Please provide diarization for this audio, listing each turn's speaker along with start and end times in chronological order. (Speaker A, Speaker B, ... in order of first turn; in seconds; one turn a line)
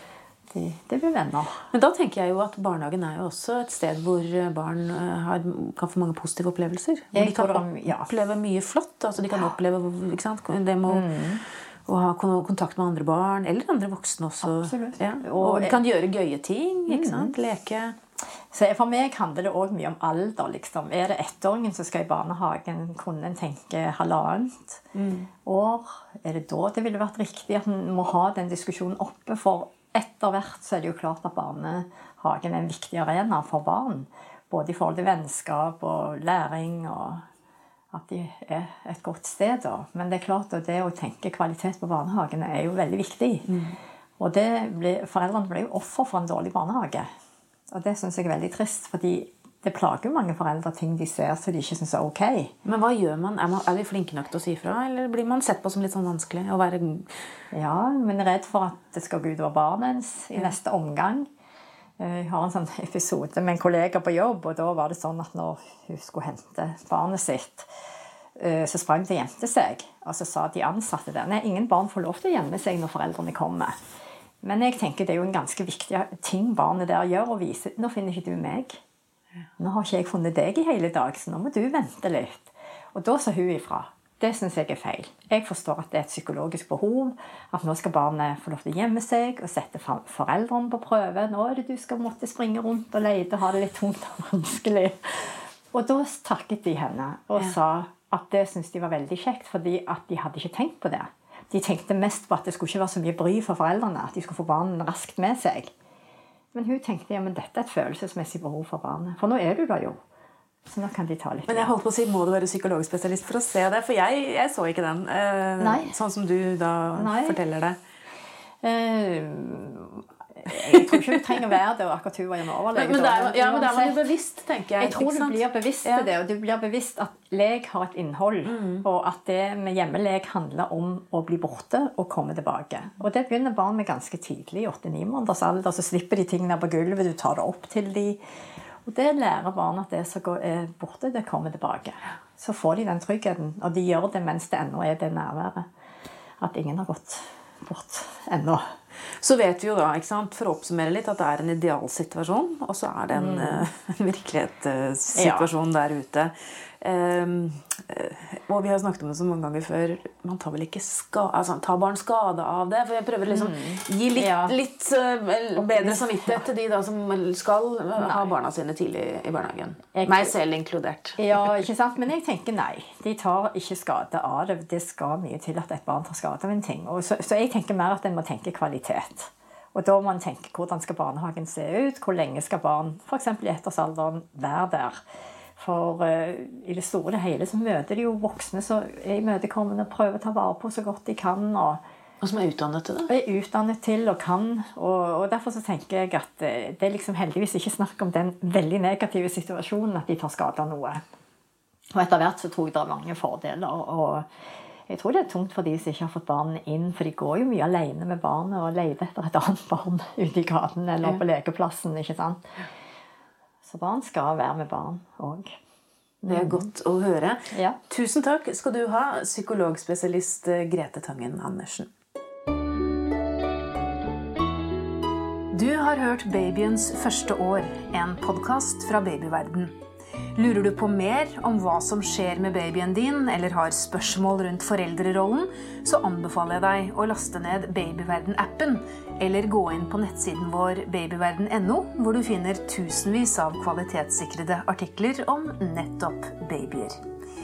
Speaker A: 0.5-1.7
Speaker B: 1.7-11.2
Speaker A: 7.1-8.1
Speaker A: 10.9-11.4
Speaker B: 11.9-18.0
Speaker A: 14.4-15.8
Speaker A: 16.9-17.4
Speaker A: 18.5-24.9
Speaker B: 24.9-25.3
Speaker A: 25.4-37.3
Speaker A: 37.9-43.5
Speaker B: 43.5-43.8
Speaker A: 44.2-47.1
Speaker A: 47.7-52.5
Speaker B: 52.6-57.2
Speaker A: 57.5-61.3
Speaker A: 62.0-67.7
Speaker A: 68.4-73.8
Speaker A: 74.4-78.8
Speaker A: 79.6-105.7
Speaker A: 106.5-110.0
Speaker A: 110.7-111.7
Speaker B: 111.5-117.8
Speaker A: 115.6-115.9
Speaker A: 116.9-117.4
Speaker A: 118.6-124.0
Speaker B: 120.5-121.2
Speaker B: 122.8-126.1
Speaker A: 124.8-138.2
Speaker B: 128.5-128.8
Speaker A: 138.8-145.7
Speaker A: 146.4-148.7
Speaker B: 149.2-171.4
Speaker A: 153.1-153.7
Speaker A: 155.2-155.5
Speaker A: 163.3-164.5
Speaker A: 165.6-166.5
Speaker A: 168.0-168.3
Speaker A: 169.9-170.3
Speaker A: 171.2-185.0
Speaker A: 185.6-191.8
Speaker B: 192.2-193.1
Speaker A: 193.1-201.0
Speaker A: 201.9-204.3
Speaker A: 204.9-212.4
Speaker A: 213.6-215.6
Speaker A: 216.2-216.7
Speaker B: 216.3-221.9
Speaker A: 217.5-217.8
Speaker B: 225.5-229.7
Speaker B: 230.3-247.0